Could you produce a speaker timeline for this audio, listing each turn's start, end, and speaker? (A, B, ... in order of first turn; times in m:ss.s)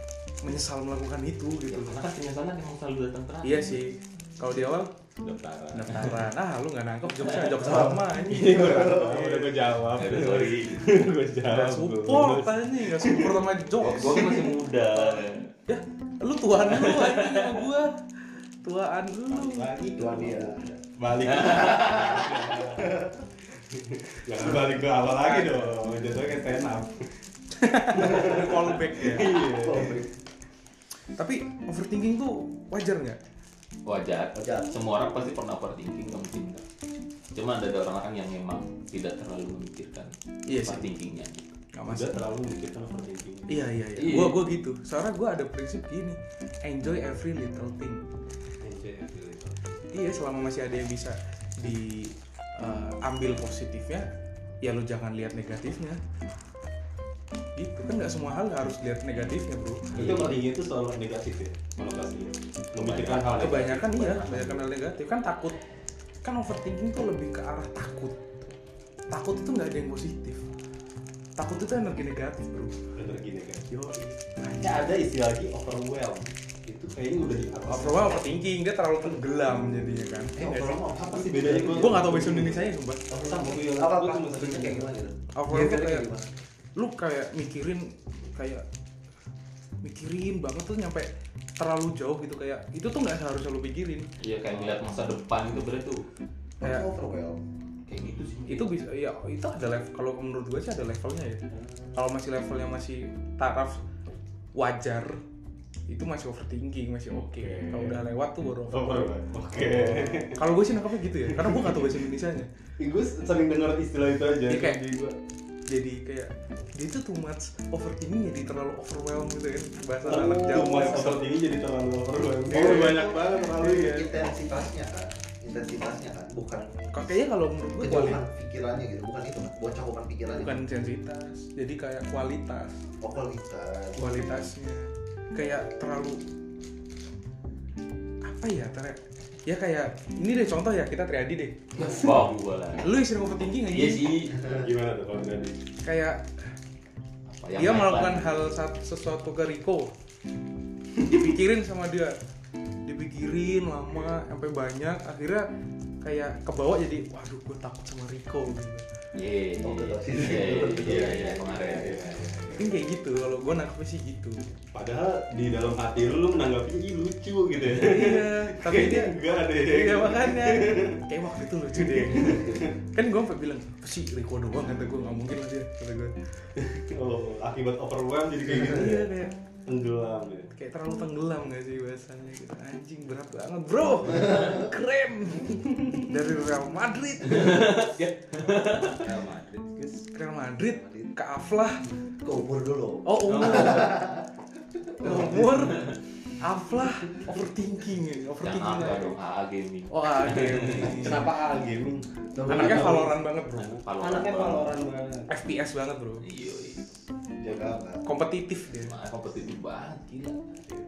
0:00.4-0:02.0 A
0:01.7-0:03.8 B
0:03.4-0:04.9 A
0:05.2-0:06.2 C
0:05.7-0:09.4 A
0:07.3-0:07.6 B
0:07.6-0:09.4 D
0:07.7-0:13.4 C
0:09.9-0:11.0 B
0:11.5-0:14.4 A
0:13.8-0:15.5 B
0:15.7-0:18.0 A
0:16.6-0:17.7 B
0:18.6-0:19.7 A
0:19.3-0:23.1 C
0:19.9-0:20.7 D
0:21.2-0:22.0 B
0:21.4-0:23.1 D
0:23.7-0:27.1 C
0:25.0-0:25.8 A
0:27.6-0:29.4 A
0:27.9-0:30.0 C
0:29.2-0:30.1 D
0:31.2-0:33.2 A
0:33.8-0:36.6 B
0:34.3-0:34.7 D
0:37.3-0:40.1 B
0:40.5-0:40.9 A
0:40.6-0:41.6 B
0:41.7-0:42.2 A
0:41.9-0:43.6 C
0:43.5-0:48.0 A
0:44.0-0:44.4 B
0:48.6-0:49.6 C
0:49.9-0:54.1 A
0:54.6-0:56.0 A
0:57.6-1:00.4 A
0:59.9-1:04.6 C
1:02.8-1:04.5 B
1:03.2-1:05.6 A
1:06.2-1:08.5 A
1:09.1-1:10.4 A
1:11.4-1:12.8 A
1:12.9-1:13.6 C
1:13.7-1:14.9 A
1:14.6-1:18.4 C
1:17.7-1:20.8 A
1:20.3-1:21.9 D
1:21.0-1:22.7 C
1:21.7-1:23.0 A
1:23.1-1:26.3 D
1:23.2-1:24.9 C
1:25.3-1:26.1 A
1:26.8-1:28.6 A
1:29.8-1:34.1 A
1:34.2-1:36.0 B
1:36.6-1:37.4 D
1:36.6-1:36.9 A
1:37.9-1:38.7 B
1:38.5-1:41.4 A
1:41.9-1:43.8 A
1:44.5-1:45.2 A
1:45.9-1:52.5 A
1:47.4-1:48.0 C
1:48.7-1:50.6 C
1:51.2-1:51.9 C
1:52.8-1:55.2 C
1:54.4-1:54.8 A
1:55.7-2:01.4 A
2:00.0-2:04.1 C
2:02.4-2:07.2 D
2:02.6-2:03.1 A
2:06.9-2:08.2 A
2:07.8-2:10.6 D
2:10.3-2:12.8 A
2:13.0-2:14.2 D
2:14.0-2:16.2 A
2:18.2-2:21.6 A
2:21.8-2:23.0 B
2:22.8-2:24.2 A
2:23.7-2:24.4 B
2:24.4-2:25.5 C
2:25.8-2:26.2 A
2:27.3-2:28.3 B
2:27.5-2:29.9 A
2:31.0-2:32.2 A
2:32.8-2:35.5 A
2:36.0-2:38.8 A
2:39.1-2:42.1 B
2:39.6-2:41.3 D
2:40.5-2:42.8 C
2:42.6-2:44.4 A
2:44.7-2:51.0 C
2:47.6-2:56.1 A
2:51.7-2:52.7 C
2:56.6-2:59.1 C
2:58.4-2:59.3 A
2:59.7-3:00.5 C
3:00.5-3:07.9 A
3:04.1-3:04.7 D
3:07.2-3:09.1 B
3:08.9-3:10.1 C
3:10.1-3:11.9 A
3:10.6-3:11.1 D
3:12.2-3:15.5 D
3:13.0-3:14.0 A
3:13.3-3:13.8 B
3:15.0-3:19.1 A
3:18.4-3:21.2 B
3:19.9-3:21.3 A
3:20.7-3:23.1 C
3:22.3-3:23.1 D
3:22.4-3:23.8 A
3:23.5-3:24.7 B
3:24.0-3:25.3 C
3:25.3-3:26.2 A
3:26.2-3:26.8 B
3:27.4-3:28.0 D
3:28.0-3:28.9 A
3:28.8-3:30.6 B